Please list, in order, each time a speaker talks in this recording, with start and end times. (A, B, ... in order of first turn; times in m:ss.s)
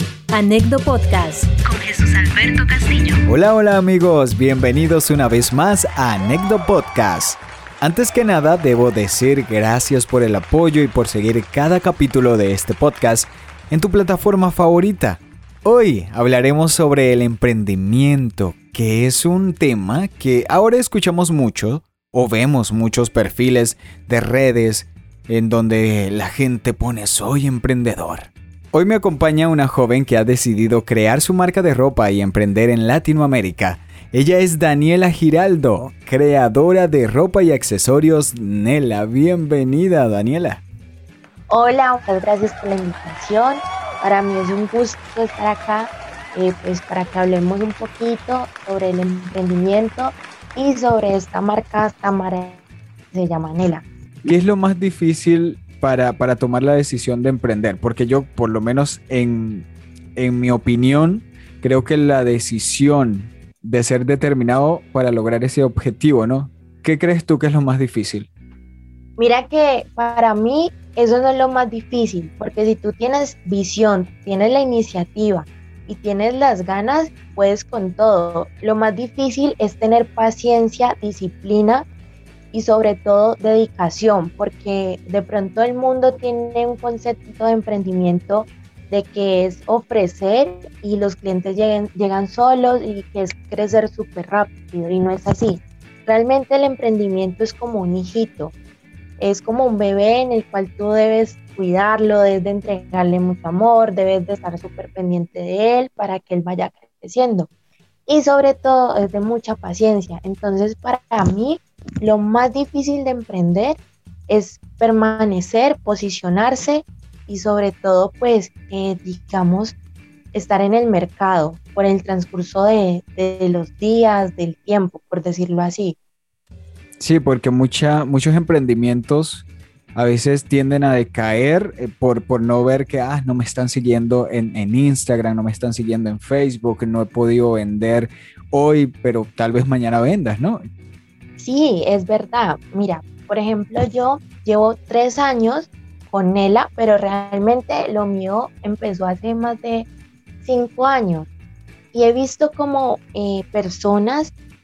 0:00.3-0:03.2 A
0:03.3-0:40.6 B
0:41.5-0:53.8 C
0:54.2-1:08.3 B
1:09.2-1:21.9 C
1:22.5-1:38.5 C
1:39.2-1:47.5 C
1:48.1-1:59.8 C
2:00.3-2:06.0 C
2:07.0-2:20.6 B
2:21.4-2:29.9 C
2:30.4-2:31.3 C
2:31.9-2:34.3 C